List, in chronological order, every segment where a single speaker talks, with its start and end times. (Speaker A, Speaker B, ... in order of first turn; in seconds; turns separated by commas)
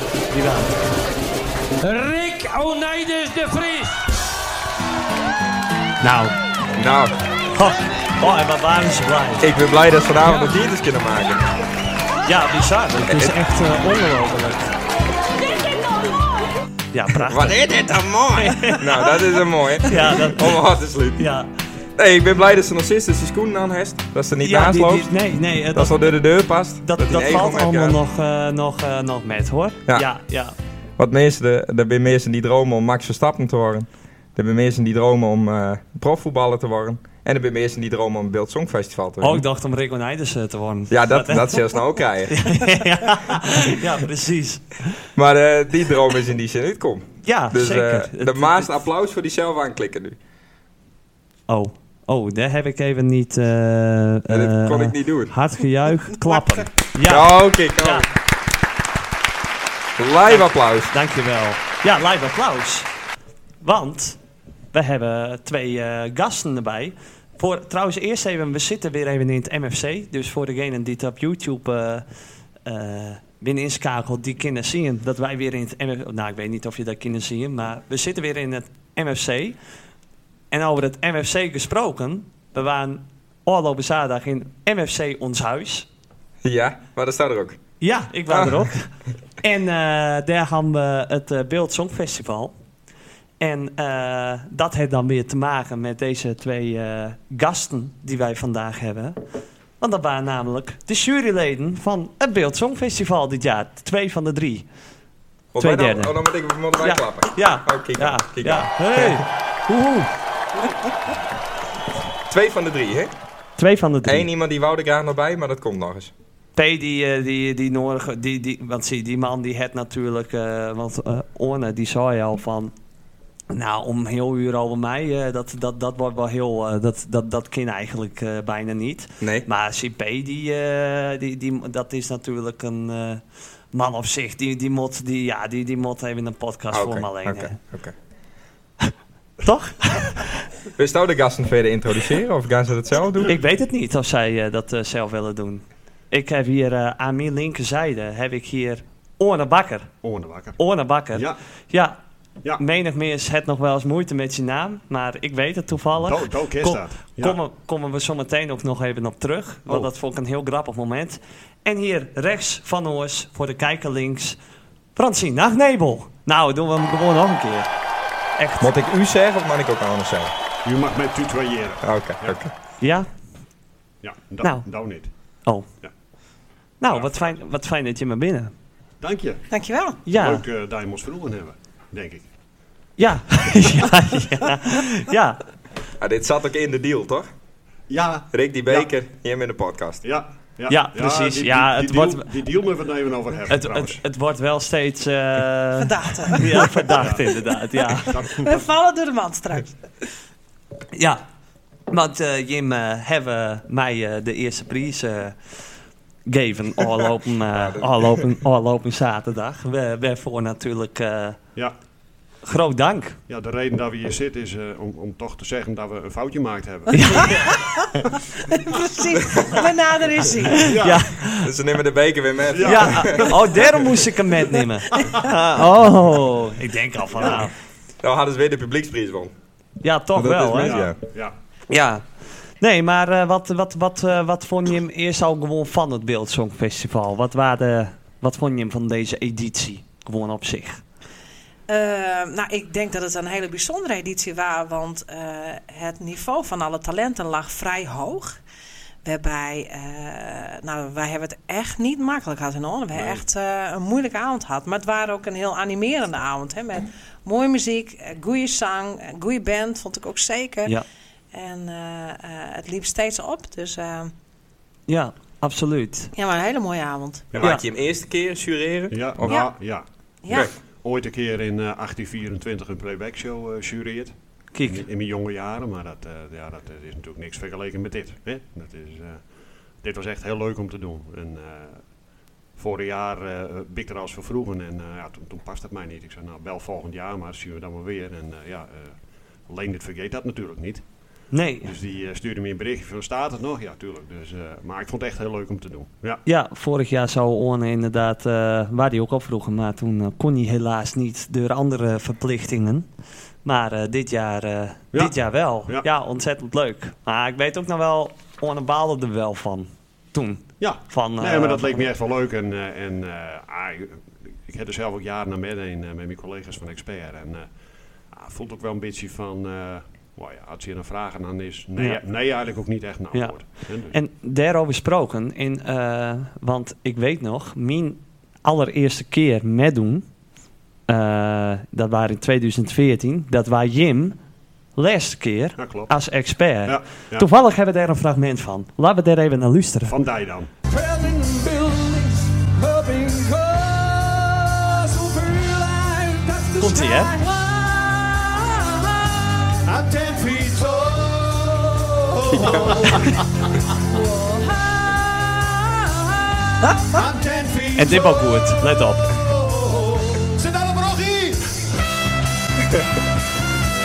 Speaker A: 0.3-0.8, Speaker B: 1.8-4.1, Speaker A: 6.0-6.3, Speaker C: 6.8-7.1, Speaker A: 7.5-9.5, Speaker C: 9.4-11.5, Speaker A: 10.2-10.5, Speaker A: 12.2-14.7, Speaker C: 13.0-13.3, Speaker A: 16.9-17.6, Speaker C: 17.3-21.2, Speaker A: 18.4-18.9, Speaker A: 19.8-20.6, Speaker A: 21.1-21.5, Speaker C: 22.0-25.1, Speaker A: 24.4-26.1, Speaker C: 25.7-28.0, Speaker A: 26.8-30.5, Speaker C: 29.9-30.1, Speaker C: 31.0-39.4, Speaker A: 39.2-41.6, Speaker C: 40.9-42.5, Speaker A: 42.3-44.9, Speaker C: 45.1-50.2, Speaker A: 47.2-48.7, Speaker A: 51.5-58.0, Speaker C: 54.3-55.3, Speaker C: 57.1-58.0, Speaker C: 60.0-60.9, Speaker A: 60.3-62.9, Speaker A: 63.6-64.2, Speaker A: 64.7-72.0, Speaker A: 72.7-79.6, Speaker A: 80.5-85.9, Speaker C: 86.4-87.6, Speaker A: 87.8-92.5, Speaker C: 88.3-88.6, Speaker A: 93.4-99.2, Speaker A: 99.8-104.7, Speaker C: 105.5-109.2, Speaker A: 105.6-106.1, Speaker A: 106.8-110.1, Speaker C: 112.3-113.1, Speaker A: 113.6-114.3, Speaker C: 114.0-116.1, Speaker A: 116.5-122.7, Speaker A: 123.5-133.2, Speaker C: 129.2-129.5, Speaker A: 133.7-137.5, Speaker C: 136.7-137.9, Speaker A: 138.8-140.5, Speaker C: 140.8-143.3, Speaker A: 143.2-149.9, Speaker D: 150.0-150.6, Speaker A: 150.6-152.0, Speaker A: 152.6-164.4, Speaker D: 156.0-157.4, Speaker A: 164.9-167.7, Speaker A: 168.4-168.7, Speaker C: 168.6-170.3, Speaker D: 170.6-172.4, Speaker C: 171.8-172.5, Speaker A: 172.8-173.1, Speaker D: 174.0-175.1, Speaker A: 176.8-178.5, Speaker D: 176.9-177.4, Speaker D: 179.0-179.4, Speaker E: 179.5-180.0, Speaker A: 180.1-180.4, Speaker D: 180.1-182.3, Speaker A: 183.0-185.4, Speaker C: 186.0-187.3, Speaker D: 187.9-188.9, Speaker C: 188.3-190.0, Speaker D: 190.0-194.0, Speaker A: 190.7-192.2, Speaker A: 193.5-198.2, Speaker E: 195.8-199.7, Speaker D: 197.0-197.2, Speaker D: 198.0-198.6, Speaker A: 200.9-201.2, Speaker A: 201.9-205.4, Speaker A: 206.2-211.4, Speaker C: 207.5-208.2, Speaker A: 212.4-213.2, Speaker D: 213.3-217.5, Speaker A: 216.9-217.3, Speaker E: 218.6-220.7, Speaker C: 219.2-219.6, Speaker A: 220.5-221.5, Speaker D: 220.6-221.1, Speaker C: 221.4-223.3, Speaker D: 222.5-223.7, Speaker A: 222.6-227.5, Speaker C: 228.0-229.3, Speaker A: 229.8-230.8, Speaker C: 230.2-231.0, Speaker D: 230.5-231.3, Speaker A: 231.7-232.0, Speaker A: 232.6-240.8, Speaker E: 241.7-248.4, Speaker E: 249.0-260.7, Speaker D: 252.9-253.2, Speaker E: 261.3-264.1, Speaker A: 264.9-266.1, Speaker E: 266.1-267.3, Speaker D: 267.3-267.6, Speaker C: 267.4-269.4, Speaker D: 268.9-279.2, Speaker E: 270.2-270.5, Speaker A: 274.5-274.9, Speaker D: 279.8-281.8, Speaker D: 282.6-290.9, Speaker A: 291.3-291.7, Speaker D: 291.6-296.2, Speaker A: 296.2-302.9, Speaker A: 303.4-311.9, Speaker D: 304.9-305.9, Speaker D: 310.6-317.5, Speaker D: 318.1-324.0, Speaker A: 321.8-322.0, Speaker A: 323.9-330.1, Speaker A: 330.9-334.2, Speaker A: 334.8-340.0, Speaker D: 335.6-335.9, Speaker D: 336.6-337.3, Speaker D: 339.8-340.5, Speaker F: 340.7-348.4, Speaker D: 343.3-343.6, Speaker A: 346.6-347.1, Speaker D: 349.6-353.4, Speaker C: 352.3-353.2, Speaker D: 356.7-361.7, Speaker A: 357.8-359.1